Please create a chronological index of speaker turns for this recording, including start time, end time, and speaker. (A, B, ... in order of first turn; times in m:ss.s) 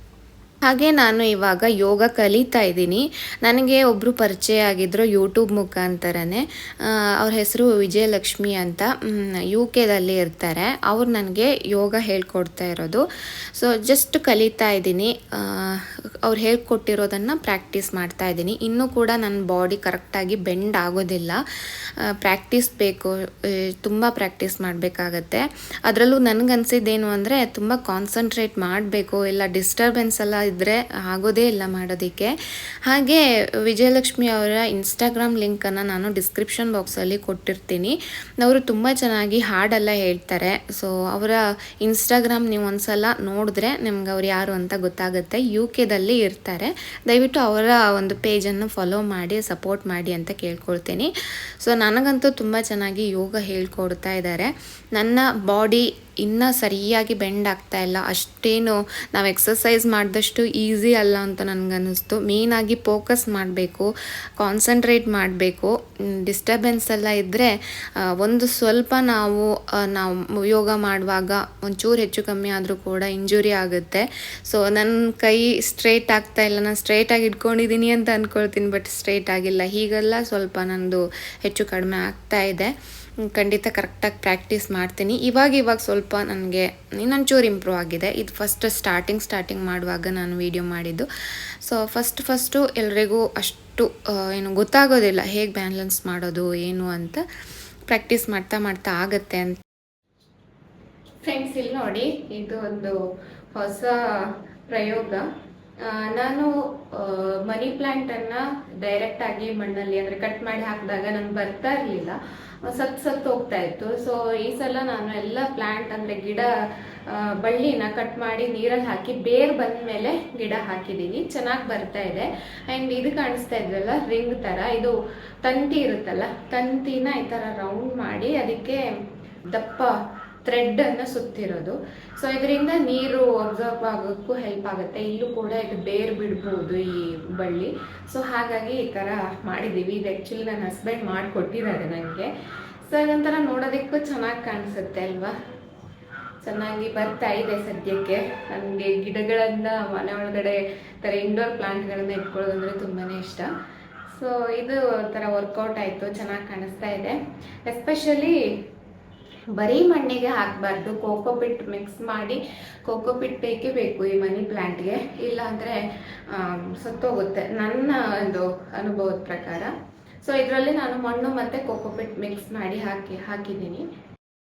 0:00.6-0:13.0 A
0:13.5-0:21.4 A
0:22.0-0:32.3 A
0:32.8-1:22.7 A
1:23.2-1:31.1 A
1:31.6-1:37.2 A
1:37.9-1:39.6 A
1:41.2-1:43.0 A
1:43.5-1:45.2 A
1:45.8-1:56.5 A
1:57.0-2:08.8 A
2:09.5-2:22.3 A
2:22.9-2:25.3 A
2:26.4-2:33.5 A
2:34.1-2:38.4 A
2:39.5-2:49.7 A
2:50.2-2:53.8 A